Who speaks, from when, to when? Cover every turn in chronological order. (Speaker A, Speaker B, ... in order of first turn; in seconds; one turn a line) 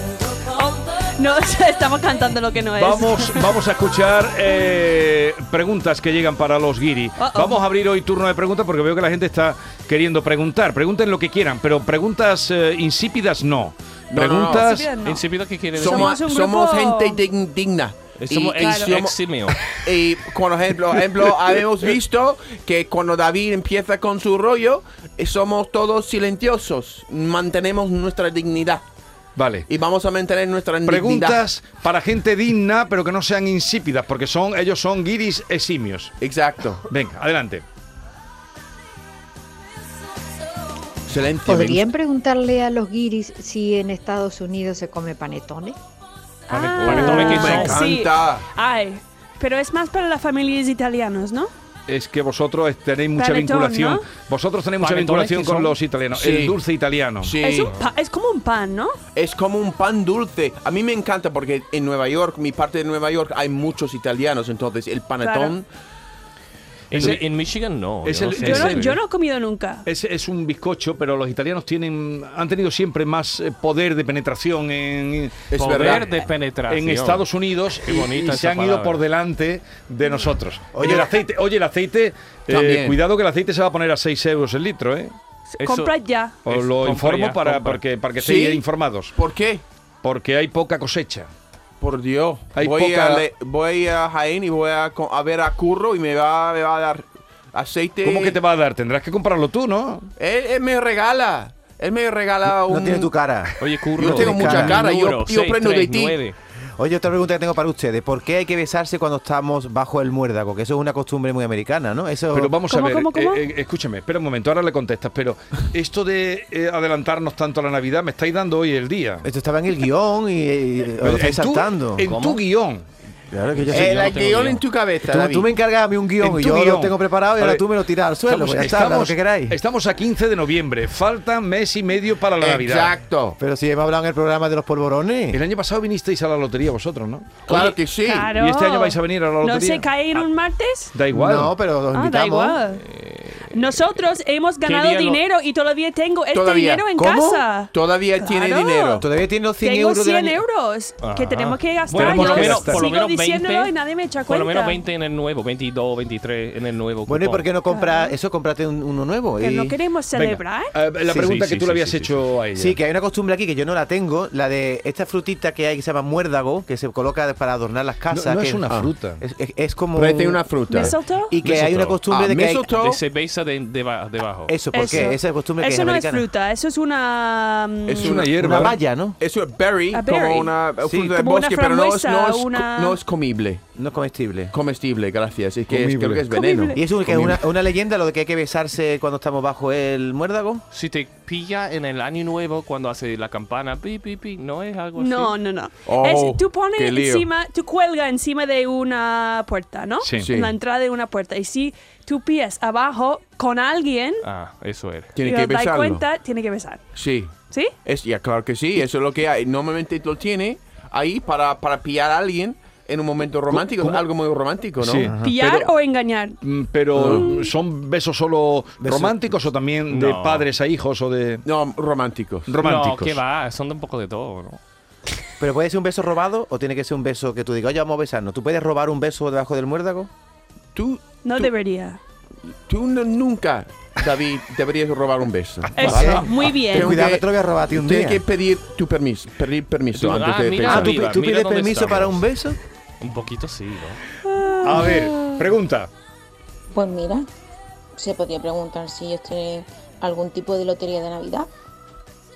Speaker A: 0.5-3.5
Speaker B: 2.8-14.9
Speaker A: 7.2-7.6
Speaker C: 14.1-14.7
Speaker A: 14.6-15.3
Speaker D: 15.0-16.2
Speaker A: 15.8-17.2
Speaker C: 15.8-19.2
Speaker D: 18.2-19.6
Speaker A: 18.6-18.9
Speaker C: 19.7-28.8
Speaker B: 29.4-29.7
Speaker C: 29.7-31.4
Speaker B: 30.9-36.1
Speaker C: 36.2-36.9
Speaker B: 36.9-37.6
Speaker C: 41.1-41.9
Speaker E: 41.5-45.8
Speaker A: 46.5-51.5
Speaker D: 46.5-47.9
Speaker C: 46.8-48.5
Speaker B: 51.9-57.4
Speaker A: 53.2-54.0
Speaker D: 54.8-55.8
Speaker C: 56.1-56.6
Speaker C: 57.2-57.7
Speaker A: 57.4-59.0
Speaker D: 57.6-57.9
Speaker C: 59.1-65.7
Speaker A: 65.2-65.5
Speaker D: 66.9-69.0
Speaker B: 66.9-67.3
Speaker B: 68.0-69.0
Speaker A: 68.4-69.9
Speaker B: 69.9-76.1
Speaker C: 75.5-76.1
Speaker D: 75.6-79.0
Speaker B: 76.7-85.1
Speaker F: 80.7-81.1
Speaker C: 82.5-83.0
Speaker A: 85.5-86.4
Speaker D: 85.6-85.9
Speaker D: 86.5-87.8
Speaker B: 86.5-89.1
Speaker C: 88.2-89.6
Speaker B: 90.0-91.3
Speaker C: 91.8-98.4
Speaker B: 92.6-93.2
Speaker B: 98.0-100.1
Speaker C: 100.2-103.1
Speaker F: 102.7-104.8
Speaker D: 103.6-106.4
Speaker C: 104.0-106.2
Speaker F: 106.8-112.5
Speaker B: 112.3-119.3
Speaker A: 112.7-113.5
Speaker F: 119.2-122.1
Speaker B: 121.0-122.8
Speaker D: 122.0-122.4
Speaker F: 123.3-124.2
Speaker D: 123.5-124.6
Speaker C: 123.7-125.5
Speaker F: 125.0-129.6
Speaker B: 126.2-127.7
Speaker B: 128.3-132.9
Speaker C: 132.4-133.4
Speaker F: 133.4-135.4
Speaker B: 135.3-137.8
Speaker C: 137.5-138.3
Speaker A: 138.0-140.9
Speaker B: 138.3-140.2
Speaker B: 140.9-141.6
Speaker F: 141.1-142.6
Speaker A: 141.9-142.8
Speaker D: 142.7-143.9
Speaker A: 143.5-149.1
Speaker D: 144.6-145.2
Speaker C: 146.3-146.9
Speaker F: 147.0-147.5
Speaker C: 147.7-149.1
Speaker F: 149.0-150.4
Speaker A: 149.6-154.8
Speaker D: 151.0-153.7
Speaker B: 151.9-152.9
Speaker D: 154.2-157.5
Speaker F: 157.1-159.8
Speaker A: 157.7-158.1
Speaker A: 159.4-160.7
Speaker B: 160.1-162.8
Speaker F: 161.1-161.3
Speaker D: 161.1-162.3
Speaker F: 162.6-168.7
Speaker B: 168.1-169.2
Speaker F: 169.2-172.7
Speaker C: 169.9-170.9
Speaker A: 170.7-171.3
Speaker D: 171.4-172.0
Speaker C: 172.1-173.0
Speaker D: 172.7-174.6
Speaker F: 174.5-176.3
Speaker A: 174.7-178.2
Speaker C: 177.9-183.6
Speaker B: 178.0-178.8
Speaker F: 178.4-179.2
Speaker A: 179.9-183.0
Speaker F: 183.8-184.5
Speaker C: 184.5-187.4
Speaker F: 185.7-186.2
Speaker A: 186.3-186.8
Speaker F: 186.8-190.6
Speaker D: 190.7-195.3
Speaker A: 195.0-204.2
Speaker C: 195.9-197.3
Speaker B: 200.0-200.3
Speaker C: 200.2-200.5
Speaker D: 204.2-205.1
Speaker C: 205.2-206.0
Speaker A: 205.2-206.8
Speaker C: 206.9-215.1
Speaker B: 213.5-214.1
Speaker B: 214.8-215.7
Speaker F: 215.0-215.3
Speaker A: 215.2-216.4
Speaker B: 216.4-221.5
Speaker C: 216.9-217.3
Speaker A: 217.1-217.5
Speaker F: 218.8-219.1
Speaker C: 218.8-219.1
Speaker D: 219.9-220.5
Speaker C: 221.4-222.5
Speaker B: 222.5-223.2
Speaker D: 222.6-224.6
Speaker F: 225.4-230.1
Speaker C: 230.8-231.5
Speaker A: 231.2-232.0
Speaker C: 232.7-241.1
Speaker A: 235.8-237.0
Speaker B: 235.8-236.2
Speaker F: 235.8-238.2
Speaker D: 240.0-242.3
Speaker F: 240.7-242.6
Speaker D: 243.0-244.0
Speaker A: 244.2-245.4
Speaker B: 244.6-245.9
Speaker G: 246.7-247.2
Speaker G: 248.0-251.5